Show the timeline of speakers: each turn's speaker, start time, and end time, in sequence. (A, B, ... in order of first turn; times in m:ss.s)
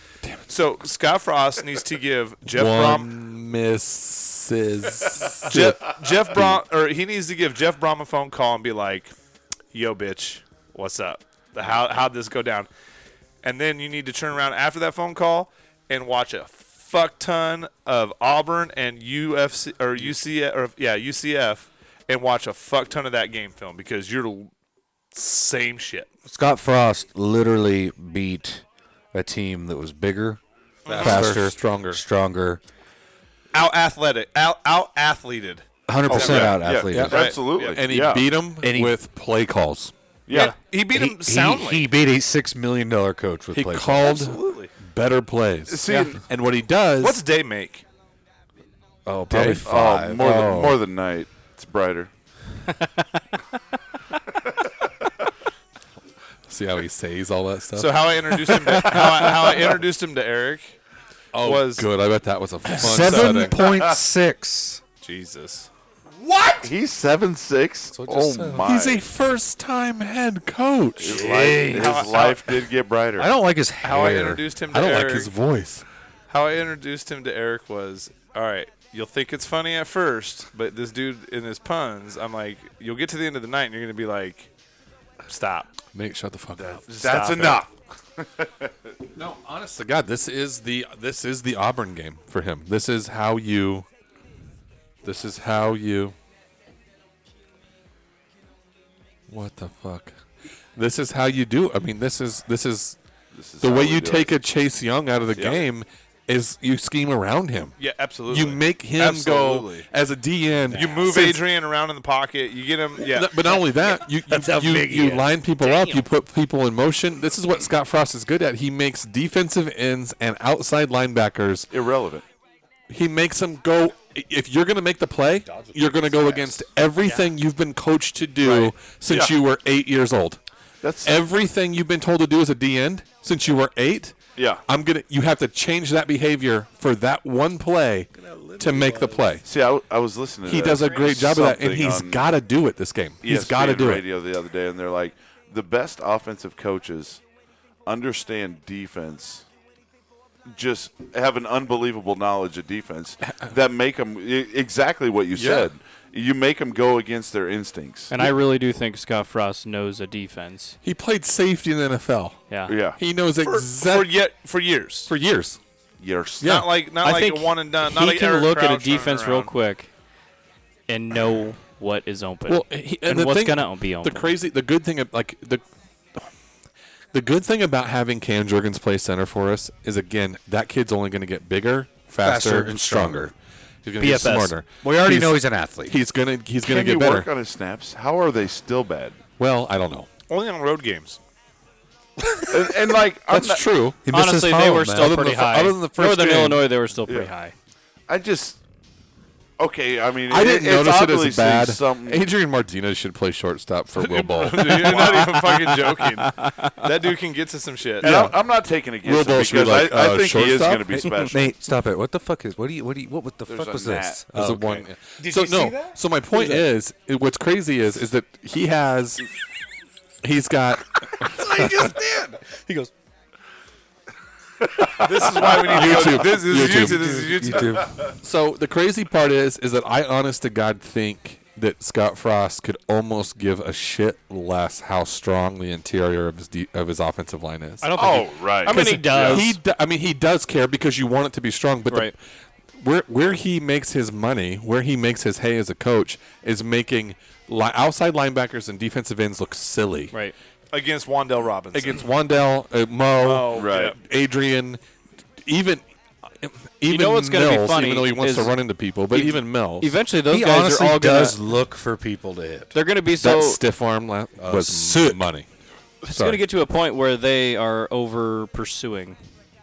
0:00.5-0:03.1 A
0:02.5-0:06.6 B
0:05.4-0:09.1 A
0:09.7-0:12.7 A
0:13.4-0:24.5 A
0:25.1-0:26.1 A
0:26.3-0:32.6 C
0:30.9-0:31.3 A
0:30.9-0:32.0 B
0:33.5-0:37.8 A
0:35.9-0:37.2 C
0:36.1-0:38.3 D
0:36.9-0:39.9 B
0:38.6-0:39.0 C
0:40.3-0:40.6 D
0:40.3-0:41.9 A
0:40.9-0:44.2 C
0:43.5-0:47.2 B
0:44.0-0:44.7 A
0:45.7-0:46.2 D
0:45.9-0:46.2 A
0:47.0-0:47.8 A
0:49.1-0:50.8 C
0:49.3-0:49.7 B
0:49.4-0:52.1 D
0:56.5-0:59.7 B
0:57.8-1:00.8 A
1:01.3-1:03.6 B
1:01.4-1:01.9 A
1:02.8-1:04.8 C
1:02.8-1:03.6 A
1:03.7-1:03.9 D
1:05.0-1:05.7 A
1:06.2-1:06.7 C
1:06.6-1:09.0 D
1:07.9-1:08.7 C
1:08.6-1:11.3 B
1:11.0-1:13.3 D
1:11.1-1:12.2 C
1:11.7-1:12.6 A
1:13.2-1:14.5 C
1:13.8-1:15.3 A
1:14.7-1:15.8 B
1:16.3-1:24.5 A
1:25.3-1:25.7 A
1:25.9-1:26.8 B
1:26.6-1:28.7 D
1:27.0-1:27.6 A
1:29.2-1:33.9 B
1:35.0-1:36.2 B
1:39.3-1:40.2 B
1:40.8-1:43.0 B
1:43.3-1:44.3 D
1:43.6-1:47.8 B
1:47.8-1:49.8 A
1:48.3-1:51.4 B
1:50.7-1:51.2 C
1:50.7-1:53.6 A
1:53.0-2:01.7 B
1:53.9-1:55.3 C
2:01.7-2:02.2 D
2:02.9-2:10.4 B
2:05.5-2:06.7 C
2:08.4-2:09.4 D
2:10.8-2:11.2 D
2:11.0-2:19.4 B
2:14.4-2:14.6 D
2:18.1-2:19.3 C
2:19.4-2:22.2 D
2:20.5-2:24.0 B
2:23.2-2:27.2 D
2:27.9-2:29.4 D
2:30.5-2:38.1 D
2:35.4-2:35.7 B
2:38.1-2:40.8 E
2:40.8-2:42.4 B
2:42.5-2:42.8 E
2:42.7-2:43.0 D
2:43.0-2:44.1 B
2:43.5-2:45.1 A
2:45.1-2:45.6 B
2:46.0-2:46.6 D
2:46.4-2:49.5 A
2:46.4-2:46.7 B
2:47.0-2:49.9 E
2:50.9-2:54.3 E
2:52.5-2:55.6 B
2:57.1-3:03.3 B
3:02.2-3:03.3 C
3:03.8-3:07.3 B
3:04.0-3:04.6 E
3:04.8-3:06.0 C
3:06.6-3:09.2 D
3:09.4-3:10.1 B
3:10.3-3:11.2 A
3:12.5-3:13.6 D
3:13.3-3:14.0 B
3:14.1-3:15.1 C
3:14.1-3:17.5 E
3:15.0-3:16.7 B
3:17.1-3:17.3 D
3:18.1-3:18.6 D
3:19.6-3:22.3 D
3:20.3-3:25.8 B
3:24.0-3:28.3 A
3:26.3-3:26.7 E
3:28.0-3:31.5 D
3:28.0-3:28.4 B
3:29.0-3:31.1 B
3:31.3-3:36.7 C
3:33.5-3:34.7 D
3:34.3-3:39.2 B
3:40.2-3:42.0 B
3:41.2-3:42.9 C
3:45.0-3:47.9 A
3:45.4-3:47.1 B
3:45.4-3:48.0 C
3:48.2-3:58.1 B
3:57.8-3:59.6 E
3:57.9-3:59.5 D
3:58.7-4:02.2 B
4:02.8-4:10.1 B
4:10.7-4:12.0 A
4:11.7-4:14.8 B
4:13.2-4:14.0 A
4:13.5-4:14.0 D
4:15.4-4:15.8 B
4:16.4-4:20.0 B
4:16.9-4:18.6 E
4:19.1-4:21.4 E
4:20.3-4:22.8 C
4:22.7-4:23.6 E
4:23.2-4:25.5 B
4:24.4-4:25.2 C
4:26.0-4:26.4 B
4:26.0-4:29.2 E